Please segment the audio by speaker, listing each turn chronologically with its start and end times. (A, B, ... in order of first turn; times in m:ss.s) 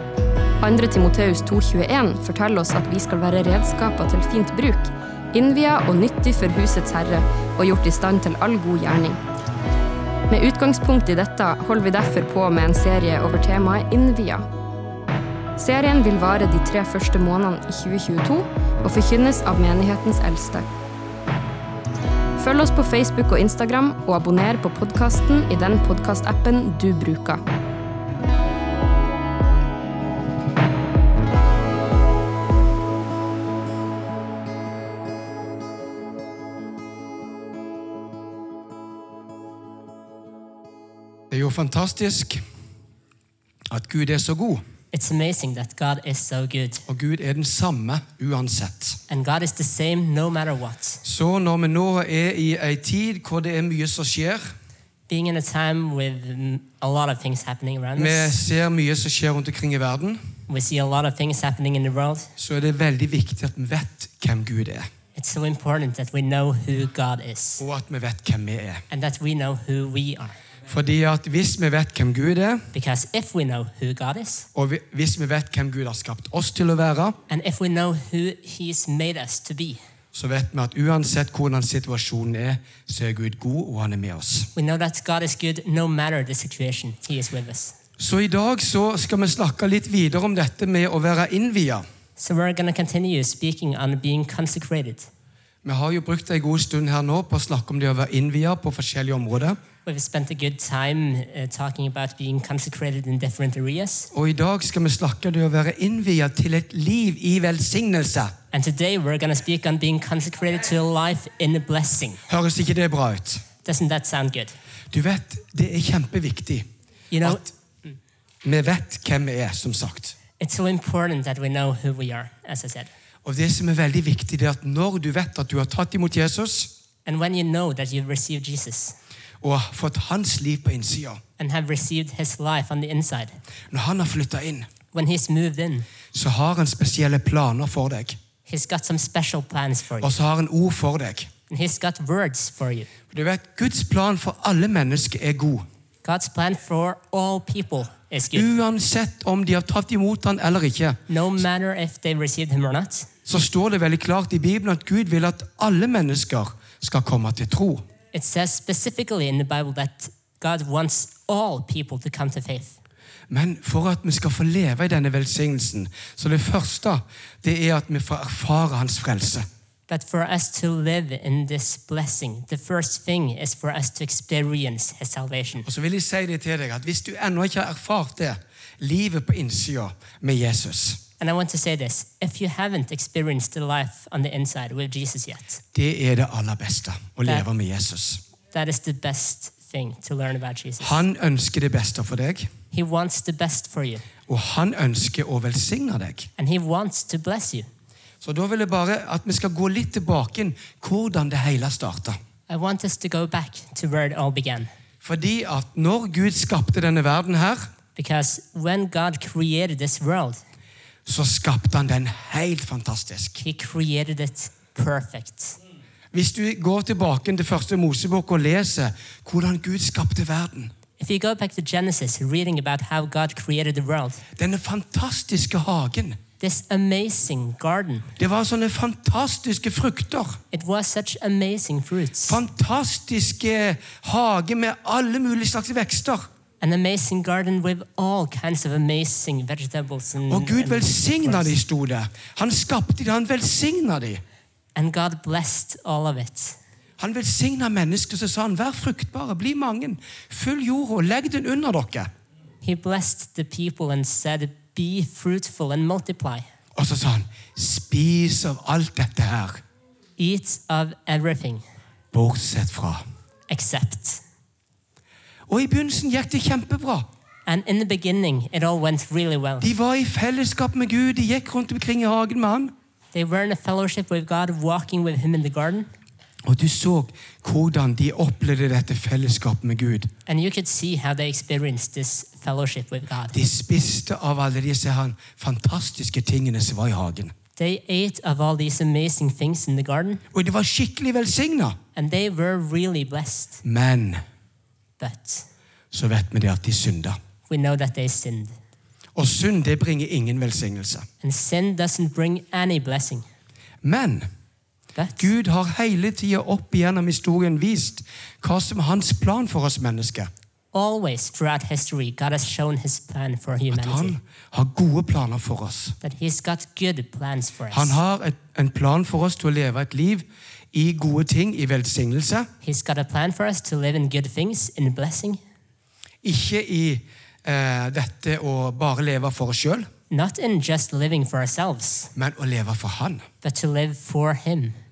0:00.6-0:09.2 A
0:10.3-0:14.5 A
0:15.6-0:20.7 A
0:22.4-0:27.4 A
0:41.3-0:42.4 B
0:43.7-0:44.6 B
0:44.9-0:46.8 C
0:46.9-0:49.0 B
0:49.1-0:51.0 C
0:51.0-0:54.5 B
0:55.1-0:58.4 C
0:58.0-1:00.2 B
1:00.5-1:02.3 C
1:02.4-1:04.9 B
1:05.2-1:07.6 C
1:07.6-1:08.8 B
1:08.9-1:10.4 C
1:10.7-1:12.7 B
1:12.7-1:14.5 C
1:14.6-1:17.2 B
1:17.3-1:19.8 C
1:20.1-1:24.5 B
1:24.6-1:27.8 C
1:28.0-1:31.8 B
1:32.2-1:35.1 C
1:35.6-1:39.6 B
1:39.9-1:44.1 C
1:44.1-1:48.4 B
1:48.5-1:52.2 C
1:52.3-1:53.4 B
1:53.6-1:54.6 C
1:54.9-1:56.7 B
1:57.1-1:58.0 C
1:57.2-1:57.5 B
1:58.4-2:00.2 B
2:00.4-2:02.9 C
2:03.2-2:06.7 B
2:07.0-2:09.0 C
2:09.4-2:11.2 B
2:11.4-2:13.4 C
2:13.7-2:14.7 B
2:14.9-2:15.9 C
2:16.1-2:18.2 B
2:18.5-2:20.2 C
2:20.0-2:21.3 B
2:21.5-2:22.9 C
2:23.1-2:25.6 B
2:26.0-2:28.5 C
2:28.3-2:31.0 B
2:31.1-2:33.1 C
2:33.3-2:37.8 B
2:38.1-2:42.8 C
2:43.3-2:49.5 B
2:49.9-2:55.7 C
2:55.6-3:01.0 B
3:01.2-3:05.6 C
3:05.7-3:08.2 B
3:08.5-3:11.0 C
3:10.8-3:12.5 B
3:12.7-3:14.0 C
3:14.3-3:16.3 B
3:16.4-3:17.7 C
3:18.2-3:22.2 B
3:22.5-3:24.7 C
3:25.0-3:27.7 B
3:28.0-3:30.4 C
3:31.1-3:33.4 B
3:33.4-3:35.6 C
3:36.1-3:40.7 B
3:41.0-3:44.2 C
3:44.4-3:46.2 B
3:46.4-3:48.1 C
3:48.2-3:50.4 B
3:50.5-3:52.4 C
3:52.3-3:56.3 B
3:56.6-4:01.6 C
4:00.3-4:04.2 B
4:04.8-4:06.6 C
4:07.0-4:12.1 B
4:12.6-4:16.4 C
4:16.8-4:19.6 B
4:20.2-4:21.6 C
4:22.1-4:23.0 B
4:23.5-4:24.2 C
4:25.5-4:27.1 B
4:27.5-4:29.7 C
4:29.6-4:32.7 B
4:33.1-4:35.9 C
4:36.4-4:40.1 B
4:40.3-4:43.4 C
4:43.3-4:47.3 B
4:47.6-4:50.2 C
4:50.3-4:51.8 B
4:52.0-4:53.6 C
4:53.6-4:54.2 B
4:55.0-4:55.5 C
4:55.9-4:57.2 B
4:57.5-4:58.6 C
4:59.2-5:01.1 B
5:01.2-5:03.2 C
5:03.8-5:04.3 B
5:05.0-5:05.3 C
5:05.2-5:10.3 B
5:10.7-5:14.2 C
5:13.7-5:16.0 B
5:16.0-5:18.0 C
5:17.7-5:22.5 B
5:22.6-5:25.4 C
5:26.2-5:29.9 B
5:30.1-5:32.1 C
5:32.2-5:33.3 B
5:33.4-5:34.8 C